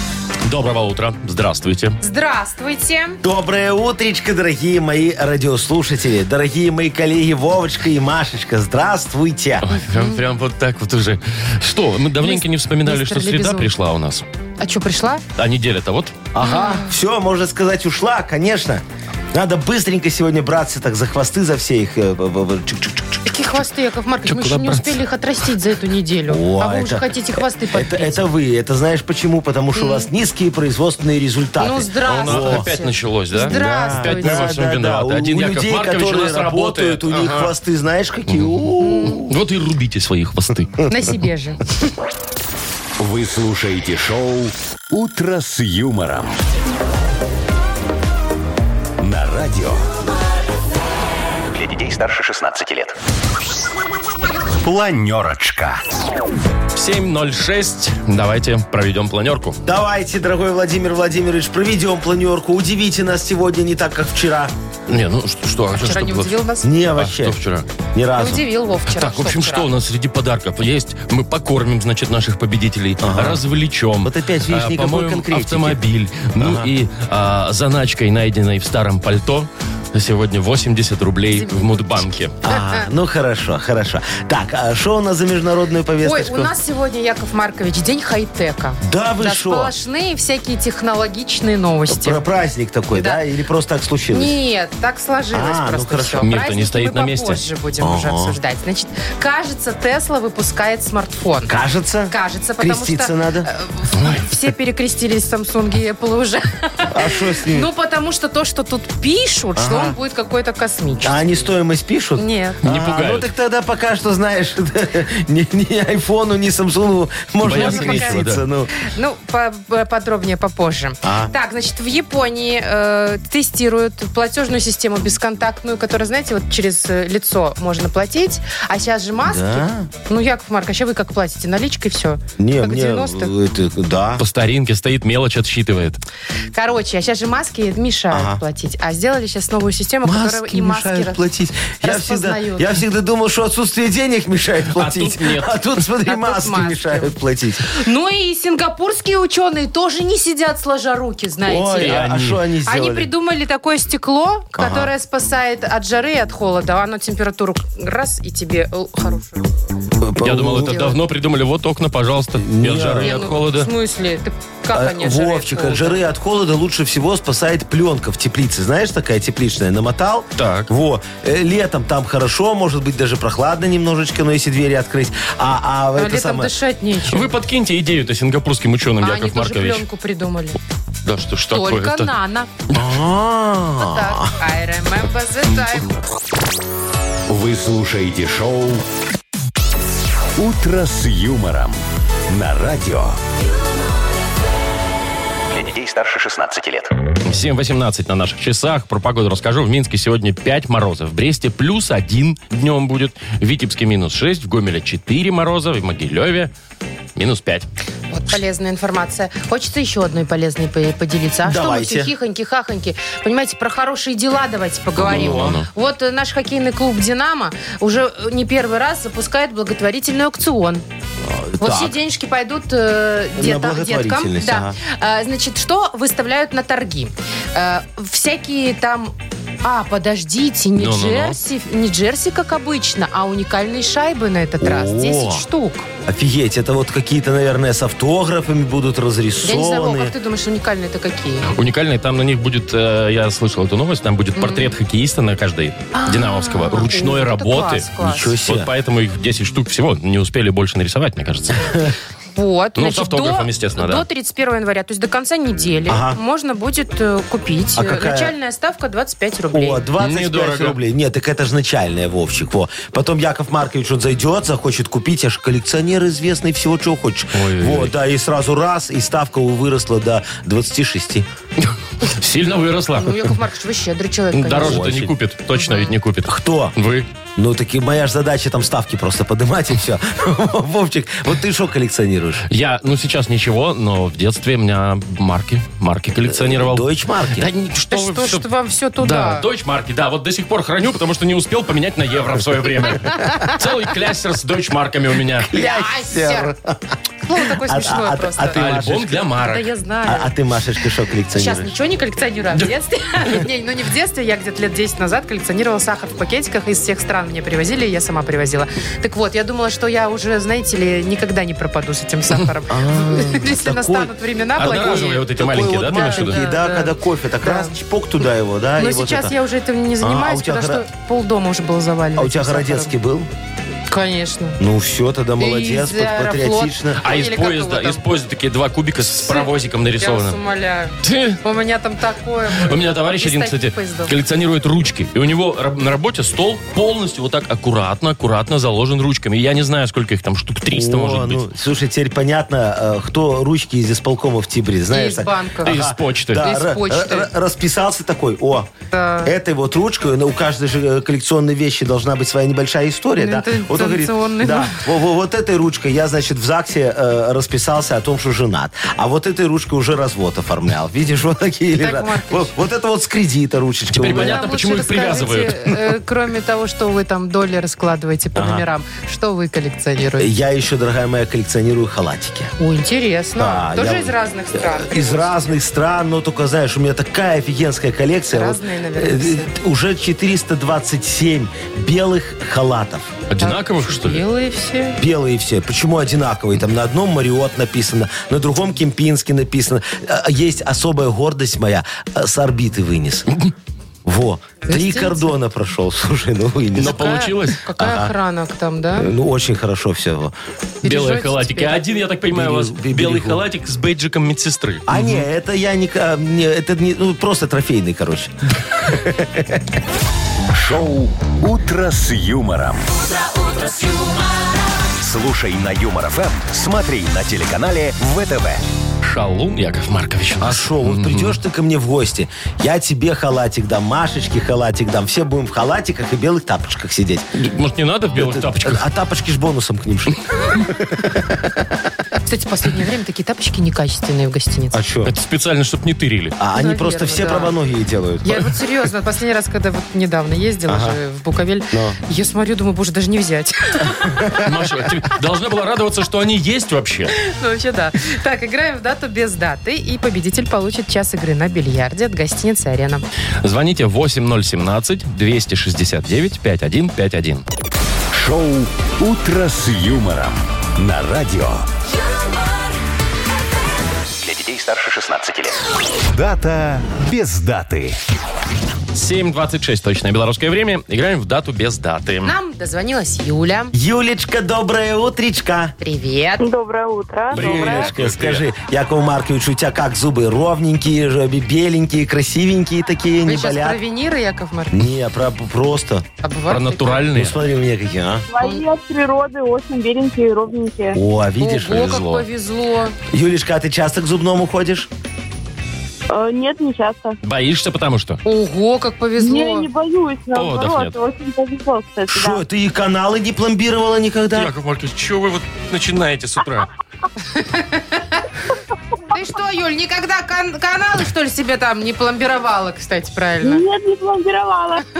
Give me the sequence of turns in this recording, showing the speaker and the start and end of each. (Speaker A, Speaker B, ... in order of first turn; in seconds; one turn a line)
Speaker A: 0.4-2.0
Speaker B: 2.0-3.2
Speaker C: 3.2-9.7
Speaker A: 9.6-14.2
Speaker B: 9.8-10.2
Speaker B: 12.2-13.7
Speaker B: 14.6-15.2
Speaker A: 15.3-16.1
Speaker C: 16.3-23.4
Speaker B: 16.4-16.9
Speaker B: 23.2-28.2
Speaker A: 24.2-25.0
Speaker C: 26.3-27.1
Speaker C: 27.7-32.6
Speaker B: 29.7-30.1
Speaker B: 31.6-34.6
Speaker A: 32.1-37.5
Speaker C: 33.4-39.3
Speaker A: 38.3-38.6
Speaker B: 38.8-39.2
Speaker A: 39.2-40.7
Speaker B: 40.9-41.6
Speaker D: 43.0-46.4
Speaker D: 49.0-49.8
Speaker D: 51.5-52.9
Speaker D: 54.6-55.8
Speaker A: 56.7-59.6
Speaker C: 59.6-64.5
Speaker A: 64.9-66.3
Speaker B: 65.8-66.7
Speaker C: 66.6-67.4
Speaker A: 67.0-67.7
Speaker C: 67.9-68.4
Speaker B: 68.2-69.7
Speaker A: 68.9-82.3
Speaker C: 73.0-73.4
Speaker C: 74.0-75.8
Speaker C: 76.4-76.7
Speaker B: 81.3-82.9
Speaker C: 82.4-86.5
Speaker B: 86.0-92.2
Speaker C: 88.8-89.7
Speaker C: 91.9-94.3
Speaker B: 92.9-93.2
Speaker B: 94.1-101.5
Speaker C: 95.3-96.3
Speaker A: 96.2-97.4
Speaker C: 97.8-98.4
Speaker C: 101.5-103.5
Speaker B: 102.1-111.2
Speaker A: 104.0-104.2
Speaker C: 106.9-107.7
Speaker C: 109.5-110.0
Speaker C: 111.0-118.7
Speaker B: 112.2-112.6
Speaker A: 112.6-113.3
Speaker A: 117.4-118.4
Speaker B: 117.5-133.3
Speaker C: 121.0-121.3
Speaker C: 129.2-129.9
Speaker C: 132.4-134.2
Speaker A: 134.2-136.0
Speaker B: 136.5-141.2
Speaker C: 138.1-138.4
Speaker C: 140.0-147.7
Speaker B: 141.8-142.8
Speaker A: 144.7-145.6
Speaker B: 146.0-159.5
Speaker C: 151.5-153.1
Speaker A: 151.8-152.4
Speaker C: 154.6-154.9
Speaker C: 160.0-160.9
Speaker A: 160.2-163.7
Speaker B: 160.6-160.9
Speaker C: 162.4-163.4
Speaker B: 163.0-166.0
Speaker C: 164.7-176.5
Speaker A: 170.4-170.7
Speaker B: 175.9-177.4
Speaker A: 177.1-179.8
Speaker B: 179.0-180.6
Speaker A: 181.0-182.1
Speaker B: 181.5-182.5
Speaker C: 182.7-184.3
Speaker B: 183.8-185.9
Speaker D: 187.3-188.8
Speaker D: 190.4-193.2
Speaker D: 195.5-196.9
Speaker A: 197.2-206.5
Speaker A: 207.2-207.7
Speaker B: 208.1-220.8
Speaker C: 211.4-212.1
Speaker A: 215.0-215.7
Speaker C: 215.0-215.6
Speaker C: 221.2-222.0
Speaker B: 221.6-235.9
Speaker C: 223.4-224.8
Speaker A: 230.8-231.4
Speaker C: 234.6-235.4
Speaker C: 236.0-240.1
Speaker B: 239.4-241.5
Speaker A: 241.5-247.9
Speaker B: 244.3-244.7
Speaker B: 245.9-248.4
Speaker C: 248.0-248.7
Speaker A: 248.4-251.9
Speaker C: 251.6-251.9
Speaker B: 252.3-259.9
Speaker A: 252.8-254.0
Speaker C: 255.9-256.2
Speaker C: 257.8-258.3
Speaker C: 259.5-271.2
Speaker A: 260.0-260.8
Speaker A: 267.3-267.9
Speaker A: 272.0-273.2
Speaker B: 273.0-274.9
Speaker A: 274.3-277.1
Speaker C: 274.5-275.1
Speaker B: 275.6-275.9
Speaker C: 276.3-276.7
Speaker C: 277.4-282.4
Speaker A: 282.5-295.5
Speaker C: 286.3-287.5
Speaker B: 287.9-289.4
Speaker C: 295.4-299.2
Speaker B: 295.5-296.5
Speaker B: 297.2-298.6
Speaker A: 298.5-299.7
Speaker B: 299.4-300.3
Speaker C: 300.1-301.7
Speaker B: 301.3-317.7
Speaker C: 312.7-314.1
Speaker A: 314.6-316.4
Speaker C: 315.4-319.4
Speaker B: 318.8-322.9
Speaker C: 320.0-320.9
Speaker C: 322.1-323.3
Speaker B: 323.9-324.6
Speaker C: 324.6-327.0
Speaker B: 325.4-328.0
Speaker A: 327.0-330.4
Speaker B: 329.1-334.1
Speaker A: 331.0-331.4
Speaker A: 332.5-341.4
Speaker C: 340.7-348.7
Speaker B: 344.9-345.8
Speaker A: 345.6-346.5
Speaker B: 346.4-347.3
Speaker B: 348.9-349.3
Speaker C: 349.2-364.5
Speaker B: 353.1-354.8
Speaker B: 361.8-362.5
Speaker A: 363.9-365.7
Speaker B: 364.1-370.3
Speaker C: 368.3-368.6
Speaker C: 370.2-372.5
Speaker B: 372.6-375.5
Speaker C: 373.4-383.1
Speaker B: 378.3-379.5
Speaker A: 383.3-384.2
Speaker B: 383.4-385.0
Speaker C: 385.0-393.3
Speaker C: 394.0-397.2
Speaker B: 394.6-395.3
Speaker A: 396.8-397.6
Speaker B: 396.8-399.1
Speaker C: 397.8-398.1
Speaker C: 398.9-400.3
Speaker B: 400.8-401.9
Speaker A: 400.8-405.2
Speaker C: 402.3-403.4
Speaker C: 404.9-409.8
Speaker D: 410.5-412.9
Speaker E: 413.1-414.7
Speaker D: 415.0-418.6
Speaker A: 419.0-421.4
Speaker C: 420.4-427.2
Speaker A: 427.4-428.8
Speaker C: 428.1-431.6
Speaker B: 432.2-434.8
Speaker C: 434.7-435.1
Speaker A: 435.1-436.3
Speaker C: 436.4-438.4
Speaker B: 436.5-437.5
Speaker B: 438.2-444.2
Speaker C: 440.7-441.0
Speaker C: 441.7-442.0
Speaker A: 444.4-447.1
Speaker B: 447.1-453.1
Speaker A: 453.4-457.4
Speaker D: 458.1-461.7
Speaker D: 464.2-467.9
Speaker A: 468.9-472.3
Speaker B: 472.2-473.7
Speaker C: 473.7-475.7
Speaker B: 475.8-476.5
Speaker E: 476.4-477.9
Speaker C: 477.3-483.8
Speaker A: 477.3-478.4
Speaker B: 483.2-484.9
Speaker C: 484.7-486.1
Speaker B: 486.2-487.1
Speaker A: 486.5-487.3
Speaker C: 487.1-488.2
Speaker E: 488.3-491.0
Speaker C: 490.9-491.9
Speaker B: 491.4-492.9
Speaker A: 491.7-492.2
Speaker C: 493.1-494.9
Speaker E: 496.1-497.2
Speaker A: 497.2-498.2
Speaker B: 498.2-499.7
Speaker E: 499.2-502.4
Speaker A: 500.3-500.9
Speaker C: 502.1-504.5
Speaker A: 504.3-506.7
Speaker B: 507.3-508.2
Speaker B: 509.1-513.6
Speaker E: 513.4-514.8